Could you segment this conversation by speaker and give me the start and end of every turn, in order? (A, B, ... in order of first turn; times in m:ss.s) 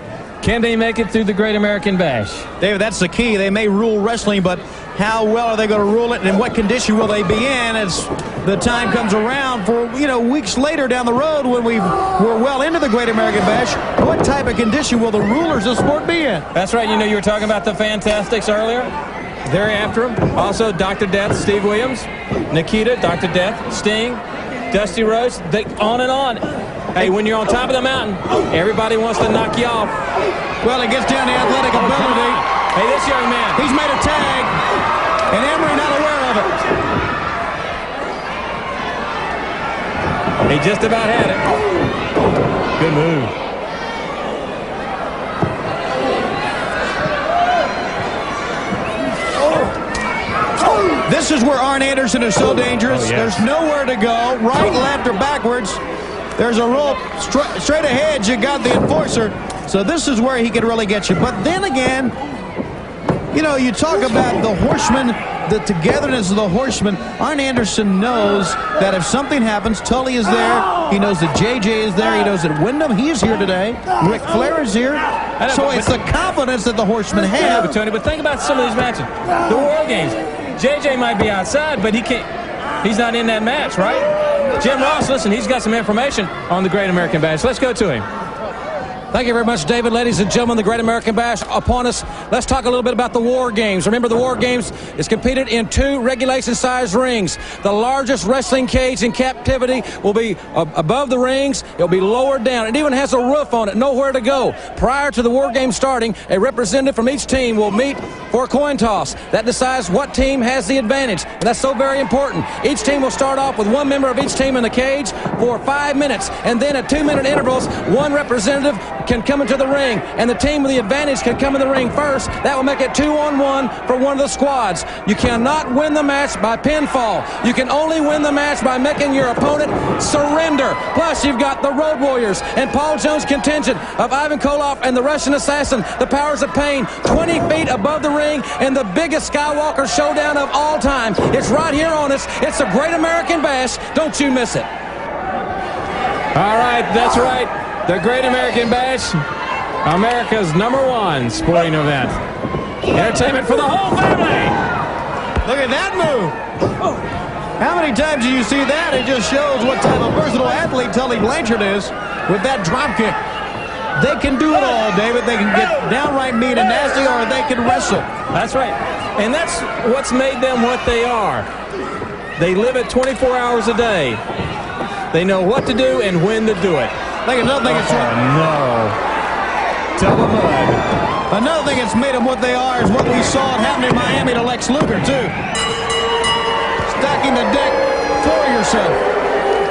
0:00.4-0:02.5 A
0:02.6-0:16.5 B
0:16.5-0:18.9 A
0:19.5-0:30.0 A
0:30.6-0:32.4 B
0:31.7-0:33.6 A
0:33.6-0:34.6 B
0:35.3-0:36.5 B
0:40.5-0:41.4 A
0:42.8-0:43.3 A
0:51.0-0:55.8 B
0:52.9-0:53.4 A
0:56.4-1:02.1 B
1:03.3-1:17.7 B
1:15.4-1:15.9 A
1:17.4-1:22.3 A
1:22.8-1:28.1 A
1:29.1-2:24.7 C
2:26.3-2:29.2 A
2:29.8-2:32.2 A
2:32.9-2:34.6 A
2:35.4-2:36.4 B
2:37.6-2:43.2 B
2:44.0-2:48.1 B
2:48.3-2:51.5 A
2:52.4-2:54.2 A
2:55.1-2:56.9 A
2:57.2-2:58.2 B
2:57.6-2:59.0 A
3:00.0-3:00.8 A
3:01.3-3:05.3 B
3:06.9-3:09.0 B